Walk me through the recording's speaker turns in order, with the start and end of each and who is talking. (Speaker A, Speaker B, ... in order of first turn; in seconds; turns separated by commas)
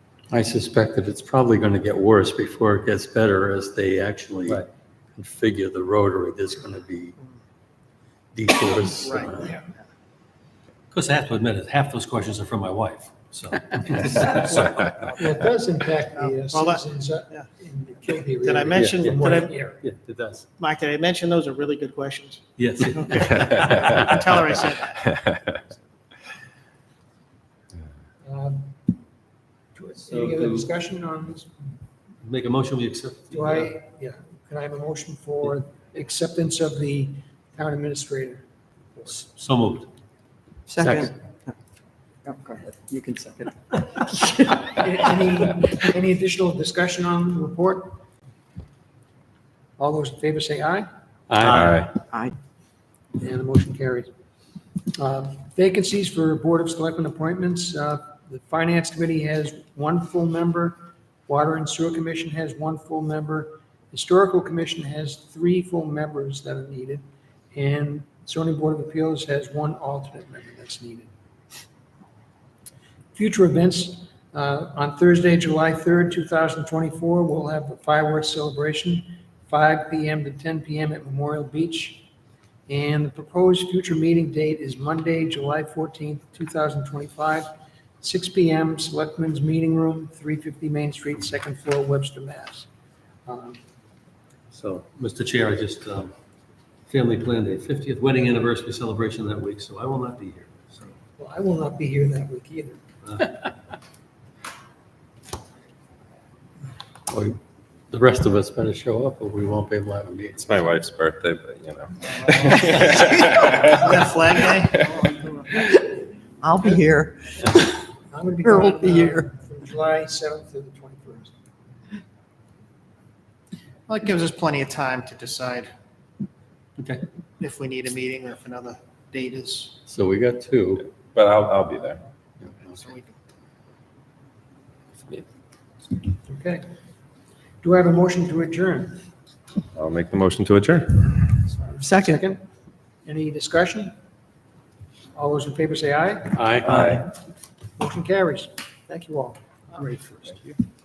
Speaker A: 0.3-4.7, Speaker A: 5.2-7.2, Speaker A: 8.3-9.6, Speaker B: 8.9-9.6, Speaker C: 10.9-15.0, Speaker D: 14.0-19.8, Speaker B: 16.3-17.5, Speaker B: 18.4-19.5, Speaker C: 18.8-19.2, Speaker C: 19.8-20.4, Speaker B: 20.6-25.0, Speaker C: 22.6-24.2, Speaker D: 23.3-23.6, Speaker D: 28.2-28.8, Speaker D: 29.8-31.5, Speaker C: 30.1-30.6, Speaker C: 32.2-33.7, Speaker D: 33.3-38.5, Speaker D: 39.0-39.2, Speaker C: 39.1-39.9, Speaker E: 40.7-41.1, Speaker E: 42.3-43.5, Speaker D: 44.6-48.0, Speaker D: 49.8-50.9, Speaker A: 51.4-51.8, Speaker C: 51.4-51.7, Speaker F: 51.5-51.9, Speaker D: 53.2-54.1, Speaker D: 55.0-67.0, Speaker D: 67.5-71.1, Speaker D: 73.2-82.1, Speaker D: 82.7-87.5, Speaker D: 88.0-92.7, Speaker D: 93.3-93.6, Speaker C: 94.5-96.1, Speaker C: 96.9-100.9, Speaker D: 101.2-102.8, Speaker A: 107.1-107.4, Speaker A: 107.9-110.5, Speaker F: 110.4-113.9, Speaker B: 112.3-113.0, Speaker B: 113.6-115.5, Speaker E: 116.4-117.3, Speaker D: 118.1-121.3, Speaker E: 118.5-119.2, Speaker B: 123.9-125.7, Speaker C: 126.8-127.0, Speaker B: 127.4-129.8, Speaker A: 129.9-130.8, Speaker F: 131.0-132.0, Speaker B: 132.8-133.1, Speaker D: 136.3-136.7, Speaker D: 137.6-139.1, Speaker F: 139.8-141.3, Speaker D: 141.6-142.4, Speaker E: 141.8-142.2, Speaker D: 143.1-143.9, Speaker D: 145.2-146.5, Speaker C: 146.4-147.0, Speaker F: 146.6-147.1, Speaker D: 147.8-149.4, Speaker C: 149.8-150.6